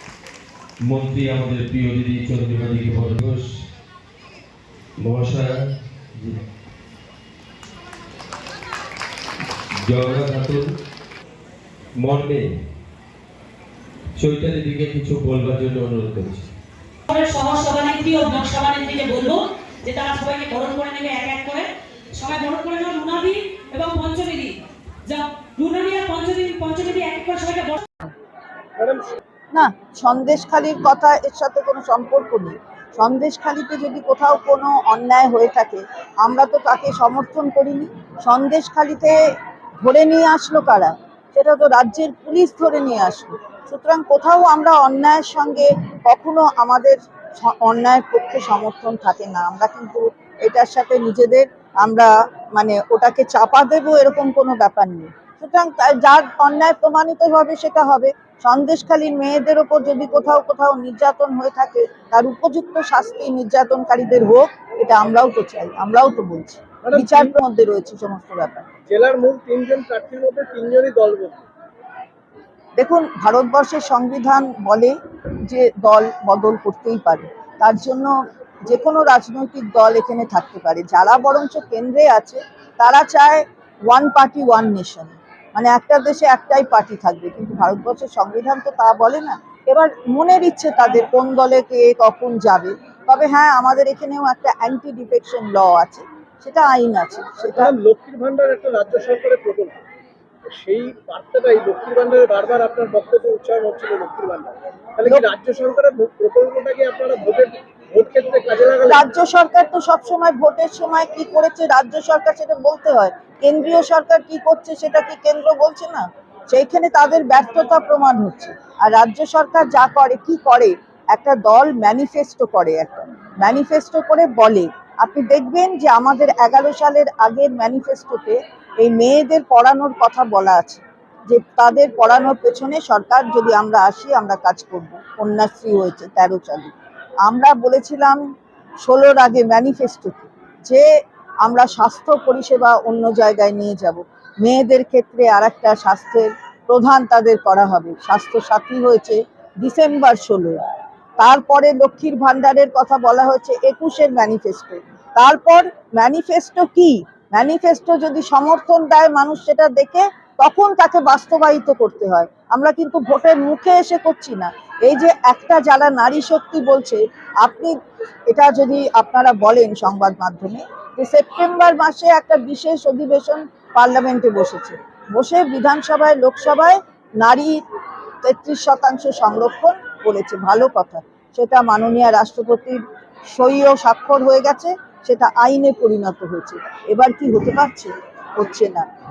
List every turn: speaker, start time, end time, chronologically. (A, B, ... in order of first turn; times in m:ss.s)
0:00.8-0:03.5 A
0:05.0-0:06.4 A
0:09.8-0:10.7 A
0:12.0-0:12.5 A
0:14.2-0:16.5 A
0:17.1-0:24.5 B
0:25.0-0:27.9 B
0:28.8-0:29.2 C
0:29.5-0:39.2 D
0:39.8-1:08.7 D
1:06.8-1:07.3 C
1:08.9-1:11.4 C
1:12.8-1:37.7 D
1:37.5-1:39.8 C
1:40.5-1:49.0 C
1:48.9-2:18.2 D
2:18.8-2:20.8 D
2:21.4-2:30.6 D
2:31.2-2:47.7 D
2:48.3-2:57.6 D
2:58.2-3:08.9 D